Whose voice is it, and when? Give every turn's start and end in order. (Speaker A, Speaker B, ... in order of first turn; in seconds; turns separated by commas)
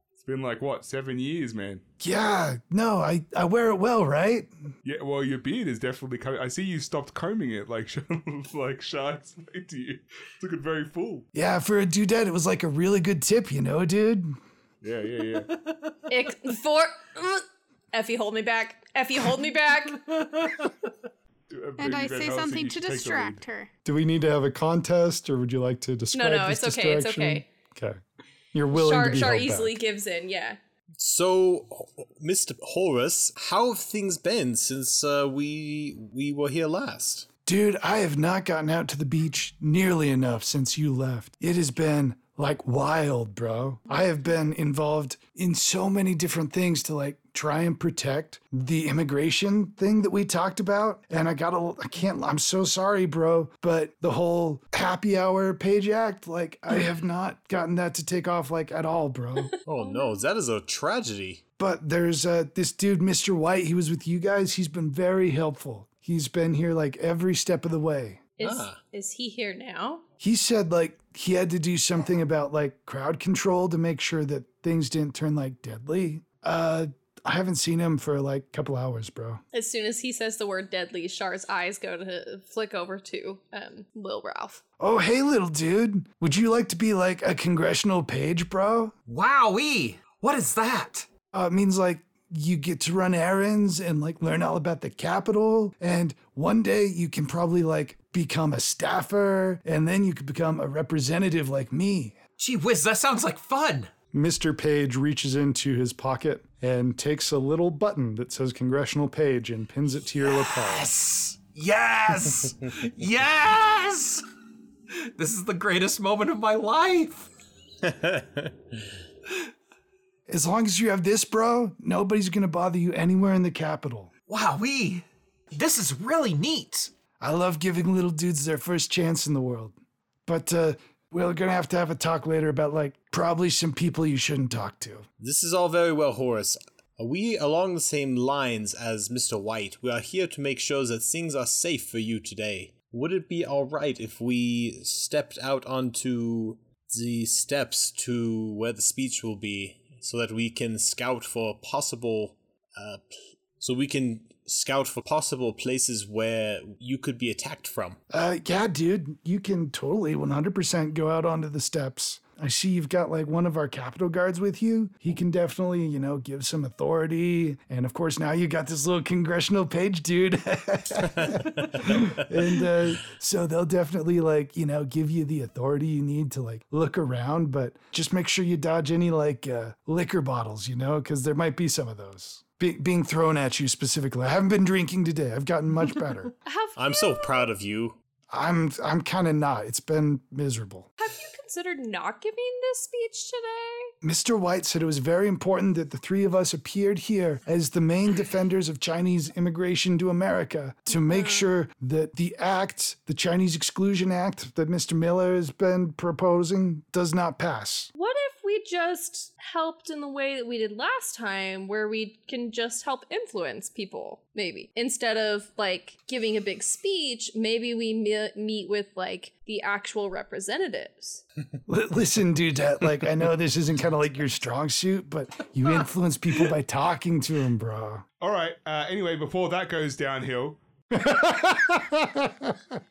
Speaker A: 0.2-1.8, Speaker B: 2.0-4.5, Speaker A: 4.8-11.3, Speaker B: 11.3-14.3, Speaker A: 14.8-15.5, Speaker C: 15.5-15.9, Speaker D: 16.1-20.1, Speaker C: 20.2-20.5, Speaker A: 21.5-23.4, Speaker E: 21.8-23.7, Speaker B: 23.9-28.0, Speaker D: 26.1-27.5, Speaker B: 28.5-29.8, Speaker D: 28.7-30.6, Speaker F: 31.0-37.3, Speaker B: 37.5-59.5, Speaker D: 59.4-60.2, Speaker F: 59.7-61.4, Speaker B: 61.6-68.2, Speaker D: 68.4-70.0, Speaker F: 68.4-68.8, Speaker B: 70.2-79.4, Speaker D: 79.5-84.6, Speaker B: 84.8-88.9, Speaker C: 89.1-91.1, Speaker B: 91.3-102.2, Speaker C: 102.4-103.9, Speaker B: 104.1-110.9, Speaker C: 110.4-114.2, Speaker C: 114.9-117.3, Speaker F: 117.8-118.5, Speaker B: 120.3-124.1, Speaker C: 124.3-126.9, Speaker B: 127.2-129.7, Speaker B: 130.3-135.1, Speaker F: 135.2-158.0, Speaker B: 158.1-186.3, Speaker F: 171.1-172.2, Speaker D: 186.5-187.5, Speaker F: 186.8-188.0, Speaker B: 188.3-190.9, Speaker D: 191.0-193.9, Speaker B: 194.0-207.9, Speaker D: 201.1-201.5, Speaker D: 208.0-221.2, Speaker B: 221.7-228.1, Speaker A: 228.2-230.6, Speaker B: 230.9-232.6